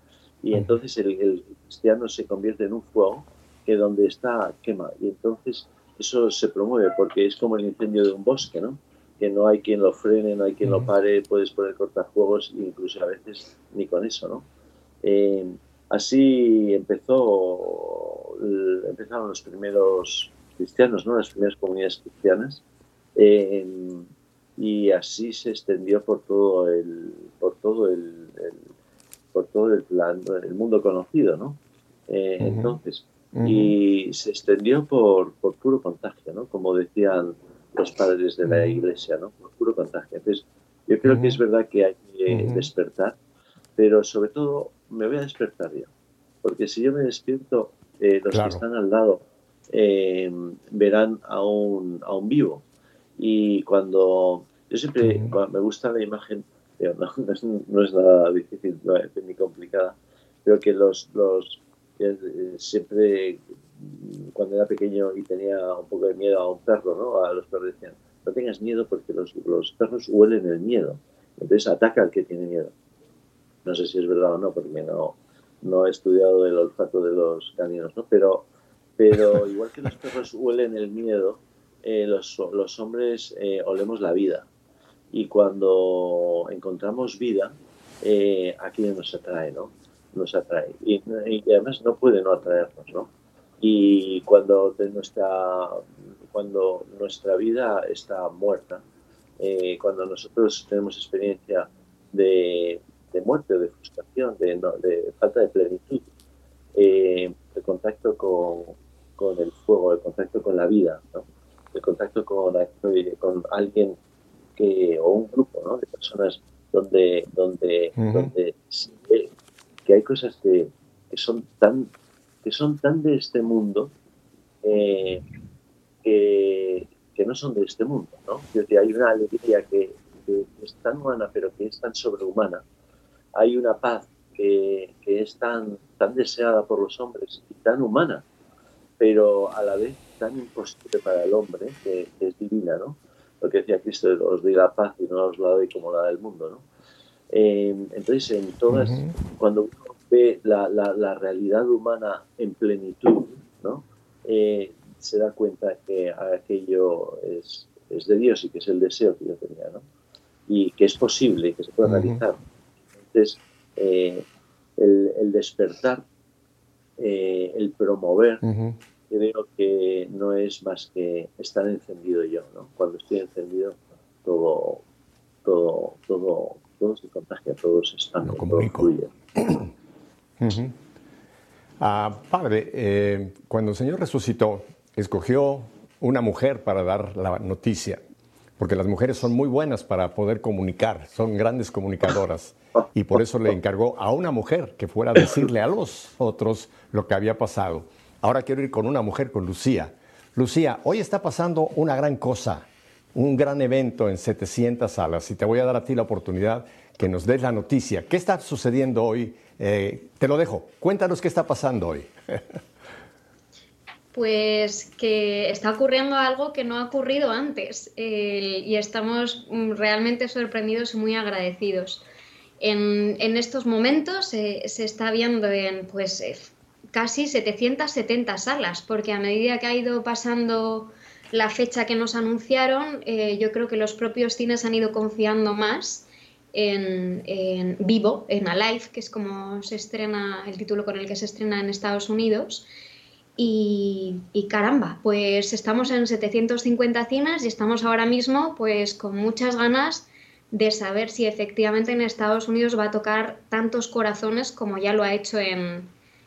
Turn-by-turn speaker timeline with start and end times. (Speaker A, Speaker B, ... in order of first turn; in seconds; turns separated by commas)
Speaker A: 0.4-14.5, Speaker A: 15.0-22.6, Speaker A: 23.1-28.6, Speaker A: 29.3-43.2, Speaker B: 32.4-32.8, Speaker B: 33.3-33.7, Speaker B: 38.4-38.8, Speaker B: 41.0-41.4, Speaker B: 42.3-42.7, Speaker A: 43.8-45.9, Speaker A: 46.4-52.6, Speaker B: 48.3-48.6, Speaker A: 53.2-72.7, Speaker B: 55.0-55.3, Speaker A: 73.6-84.5, Speaker A: 85.1-93.1, Speaker A: 93.6-98.8, Speaker A: 99.4-106.1, Speaker A: 106.7-114.0, Speaker A: 114.6-119.3, Speaker B: 118.0-118.3, Speaker A: 119.8-121.9, Speaker A: 122.4-123.9, Speaker A: 124.6-125.2, Speaker A: 126.0-132.6, Speaker A: 133.3-138.2, Speaker A: 139.0-146.6, Speaker A: 147.3-159.8, Speaker B: 148.7-149.1, Speaker A: 160.5-162.4, Speaker B: 161.8-162.2, Speaker A: 163.0-164.2, Speaker A: 164.8-166.0, Speaker A: 167.0-168.4, Speaker B: 168.4-168.8, Speaker A: 169.1-174.8, Speaker A: 175.4-179.1, Speaker B: 178.2-179.7, Speaker B: 180.4-180.7, Speaker B: 181.8-188.0, Speaker B: 188.6-212.4, Speaker C: 214.1-222.0, Speaker C: 222.6-242.7, Speaker C: 243.4-255.9